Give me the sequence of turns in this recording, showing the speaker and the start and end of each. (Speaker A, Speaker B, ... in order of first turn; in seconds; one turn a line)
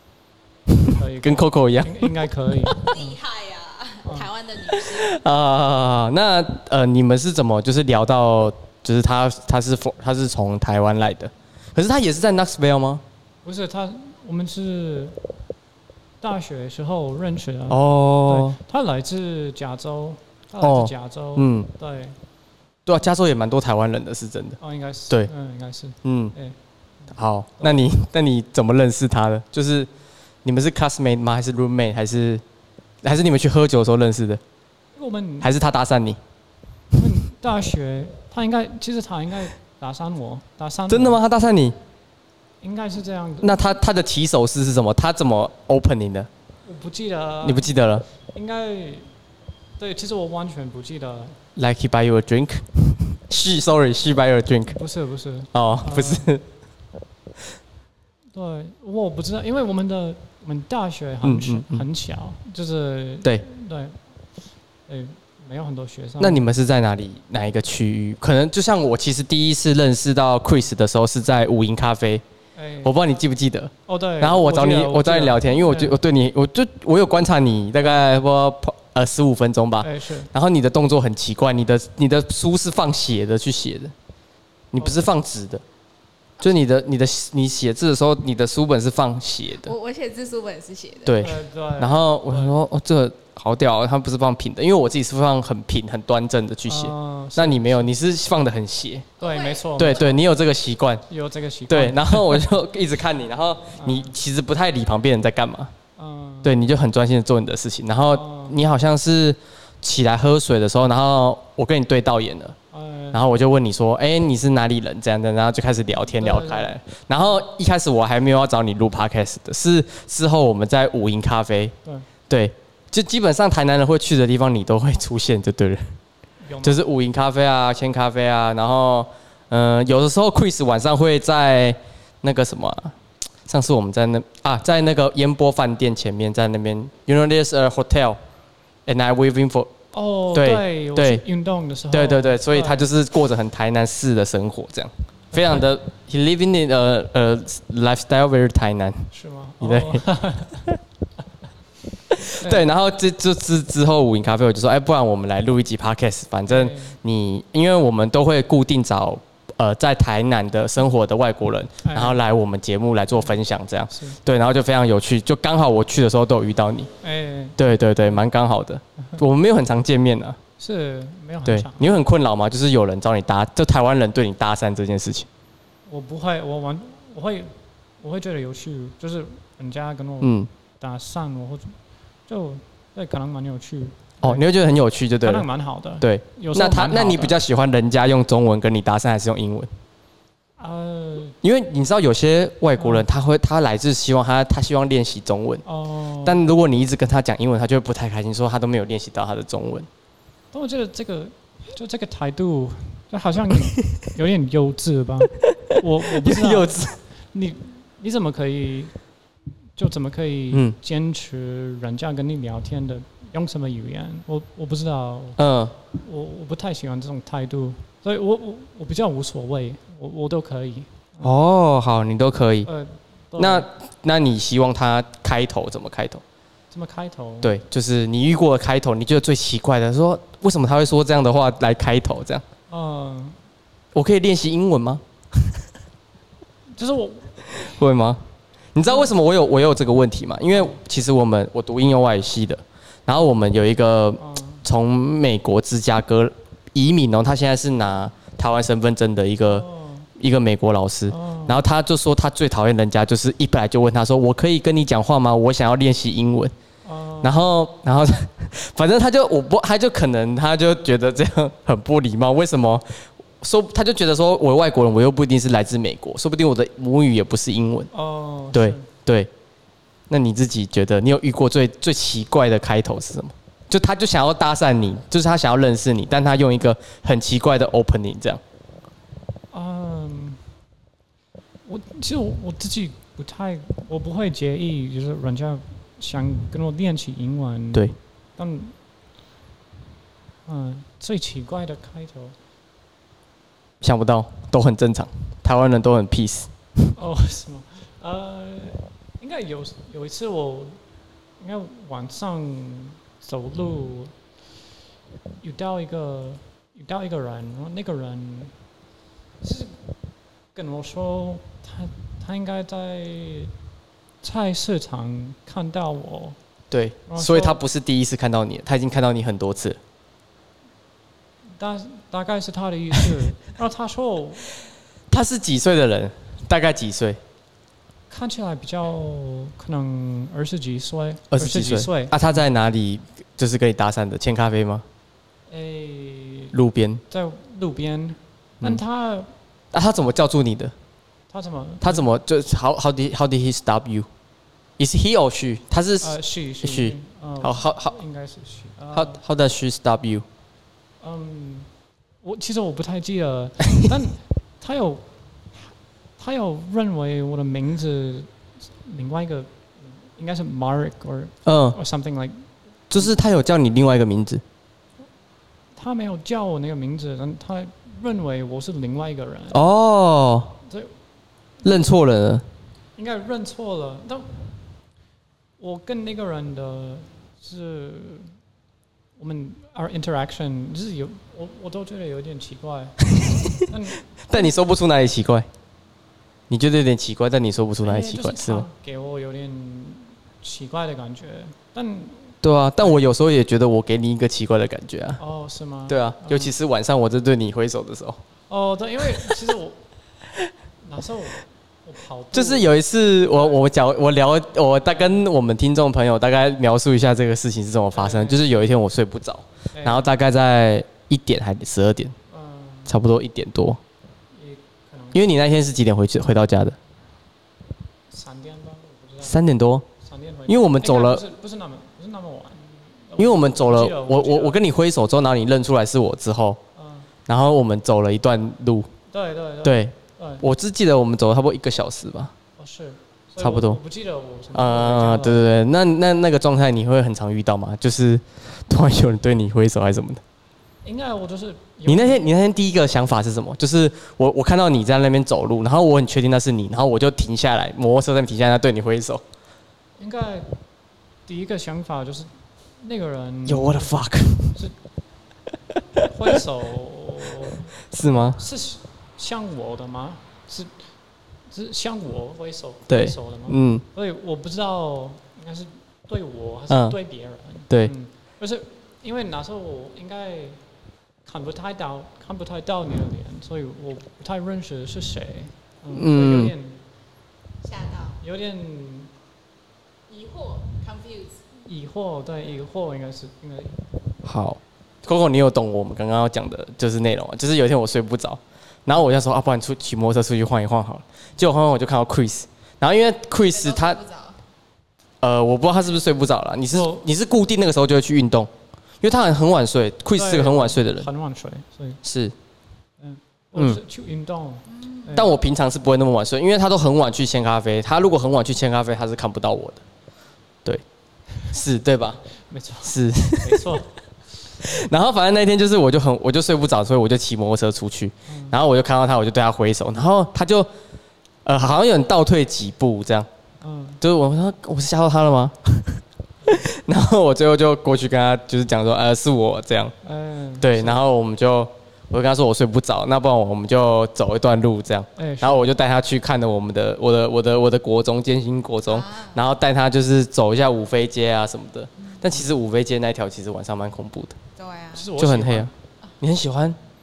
Speaker A: 0.8-2.3
Speaker B: 0.9-3.2
Speaker C: 2.7-5.2
Speaker B: 4.0-4.3
Speaker A: 4.7-13.0
Speaker B: 13.4-15.2
Speaker B: 16.2-22.2
Speaker A: 17.7-18.6
Speaker A: 20.6-21.7
Speaker A: 22.9-24.6
Speaker B: 24.6-26.6
Speaker A: 26.0-26.4
Speaker A: 27.1-29.9
Speaker B: 27.6-27.9
Speaker A: 30.4-32.4
Speaker A: 33.0-34.4
Speaker B: 35.0-35.5
Speaker A: 35.4-36.2
Speaker B: 37.0-41.2
Speaker A: 40.9-41.8
Speaker B: 42.6-43.8
Speaker A: 43.4-46.3
Speaker B: 46.6-49.1
Speaker A: 47.4-48.1
Speaker B: 49.8-51.4
Speaker A: 51.6-54.8
Speaker B: 54.7-56.3
Speaker A: 55.5-56.4
Speaker B: 58.3-64.1
Speaker A: 61.2-61.9
Speaker B: 64.9-66.5
Speaker A: 66.2-72.2
Speaker B: 72.5-73.0
Speaker A: 72.8-83.9
Speaker B: 73.9-76.0
Speaker B: 79.8-80.3
Speaker A: 84.7-85.6
Speaker B: 84.8-85.1
Speaker A: 86.4-89.8
Speaker C: 89.6-91.3
Speaker A: 91.0-99.1
Speaker B: 91.2-92.5
Speaker B: 96.7-97.9
Speaker B: 99.2-100.1
Speaker C: 99.2-100.2
Speaker A: 99.8-101.0
Speaker B: 101.1-102.5
Speaker A: 101.7-105.7
Speaker B: 103.8-104.1
Speaker B: 106.0-106.6
Speaker A: 106.4-112.6
Speaker B: 108.1-108.6
Speaker B: 112.7-113.2
Speaker A: 113.1-121.7
Speaker B: 116.2-116.7
Speaker A: 122.3-125.9
Speaker B: 126.4-126.8
Speaker A: 126.6-138.2
Speaker A: 138.9-139.7
Speaker B: 139.9-142.9
Speaker A: 140.3-141.2
Speaker A: 141.9-150.1
Speaker B: 145.3-145.7
Speaker B: 149.1-150.7
Speaker A: 152.1-166.9
Speaker B: 152.2-152.7
Speaker B: 156.5-157.0
Speaker B: 161.8-162.2
Speaker B: 163.9-164.2
Speaker B: 167.0-167.6
Speaker A: 167.6-170.4
Speaker B: 170.6-172.0
Speaker A: 171.5-175.3
Speaker B: 175.9-181.8
Speaker A: 180.2-180.5
Speaker B: 182.3-184.5
Speaker A: 184.2-185.5
Speaker B: 185.2-187.4
Speaker A: 186.0-189.7
Speaker B: 190.6-191.4
Speaker A: 191.4-195.6
Speaker B: 192.8-193.1
Speaker B: 195.7-196.4
Speaker A: 196.2-199.9
Speaker B: 200.5-209.0
Speaker A: 205.7-207.0
Speaker B: 209.8-215.4
Speaker A: 215.4-215.8
Speaker B: 215.9-221.3
Speaker A: 221.2-222.7
Speaker B: 222.7-223.7
Speaker A: 223.4-226.2
Speaker B: 226.7-227.6
Speaker A: 227.4-232.4
Speaker B: 232.7-233.4
Speaker A: 233.9-235.5
Speaker B: 236.8-237.6
Speaker A: 237.4-249.7
Speaker B: 238.9-239.1
Speaker B: 244.2-244.7
Speaker B: 249.5-250.1
Speaker A: 250.2-256.5
Speaker B: 251.1-251.6
Speaker B: 256.8-257.4
Speaker A: 257.2-267.9
Speaker B: 267.9-268.9
Speaker A: 268.5-269.3
Speaker A: 270.1-278.4
Speaker B: 279.5-280.4
Speaker B: 281.6-288.8
Speaker B: 290.5-292.4
Speaker A: 293.8-296.9
Speaker B: 297.0-300.8
Speaker B: 301.4-304.1
Speaker B: 305.4-308.5
Speaker B: 309.4-309.8
Speaker B: 310.6-313.5
Speaker B: 314.2-316.4
Speaker A: 316.7-319.8
Speaker B: 317.1-317.6
Speaker B: 321.6-324.5
Speaker A: 325.1-327.2
Speaker B: 328.1-332.2
Speaker A: 331.3-334.9
Speaker B: 335.5-336.6
Speaker A: 336.5-337.0
Speaker B: 337.1-339.3
Speaker A: 339.7-340.7
Speaker B: 341.3-342.1
Speaker A: 341.8-344.1
Speaker A: 344.8-348.0
Speaker B: 346.0-349.2
Speaker A: 348.9-350.2
Speaker B: 351.0-351.7
Speaker B: 352.2-355.0
Speaker B: 355.6-363.1
Speaker A: 361.4-361.8
Speaker A: 362.9-364.4
Speaker B: 365.8-369.6
Speaker A: 369.5-370.6
Speaker B: 370.7-371.0
Speaker B: 371.6-371.9
Speaker A: 371.6-372.4
Speaker B: 373.0-374.5
Speaker B: 375.6-378.3
Speaker B: 379.2-384.6
Speaker A: 384.3-385.5
Speaker A: 386.5-388.6
Speaker B: 387.8-393.0
Speaker A: 392.4-395.2
Speaker B: 395.2-396.5
Speaker A: 395.9-398.2
Speaker B: 398.5-399.8
Speaker B: 400.8-403.6
Speaker A: 402.3-412.1
Speaker B: 404.9-405.2
Speaker B: 407.9-408.5
Speaker B: 409.7-410.1
Speaker B: 412.3-413.0
Speaker A: 412.9-413.8
Speaker B: 414.3-415.3
Speaker A: 415.1-416.8
Speaker B: 418.1-419.4
Speaker A: 419.2-419.9
Speaker B: 420.0-424.6
Speaker A: 420.5-421.2
Speaker A: 423.2-426.6
Speaker B: 426.8-427.1
Speaker A: 427.3-428.9
Speaker B: 429.1-430.4
Speaker A: 429.6-432.3
Speaker B: 432.6-435.4
Speaker A: 433.4-433.8
Speaker A: 434.5-440.2
Speaker B: 440.8-442.3
Speaker A: 441.9-449.2
Speaker B: 450.0-450.5
Speaker B: 451.3-454.8
Speaker A: 453.5-454.6
Speaker B: 456.0-457.7
Speaker A: 457.9-458.4
Speaker B: 458.3-460.9
Speaker B: 461.5-470.6
Speaker A: 462.9-463.9
Speaker A: 466.7-467.0
Speaker B: 471.2-476.8
Speaker A: 475.9-476.5
Speaker C: 477.6-478.2
Speaker B: 478.2-479.1
Speaker C: 480.1-481.4
Speaker B: 481.6-483.9
Speaker A: 484.2-494.0
Speaker C: 493.4-494.4
Speaker A: 495.2-498.5
Speaker B: 496.7-497.1
Speaker A: 499.0-501.1
Speaker B: 500.1-502.0
Speaker A: 502.0-502.3
Speaker B: 503.0-505.3
Speaker A: 503.6-503.8
Speaker C: 504.7-505.1
Speaker A: 505.1-509.8
Speaker A: 511.5-512.2
Speaker B: 512.4-514.7
Speaker A: 512.8-513.8
Speaker A: 514.6-520.7
Speaker B: 518.3-518.6
Speaker A: 521.4-523.3
Speaker B: 523.6-524.0
Speaker A: 524.0-530.0
Speaker B: 530.0-531.0
Speaker A: 530.6-544.4
Speaker B: 535.2-535.7
Speaker C: 538.9-539.4
Speaker C: 544.6-545.1
Speaker B: 544.9-545.7
Speaker A: 545.2-545.7
Speaker A: 546.2-546.8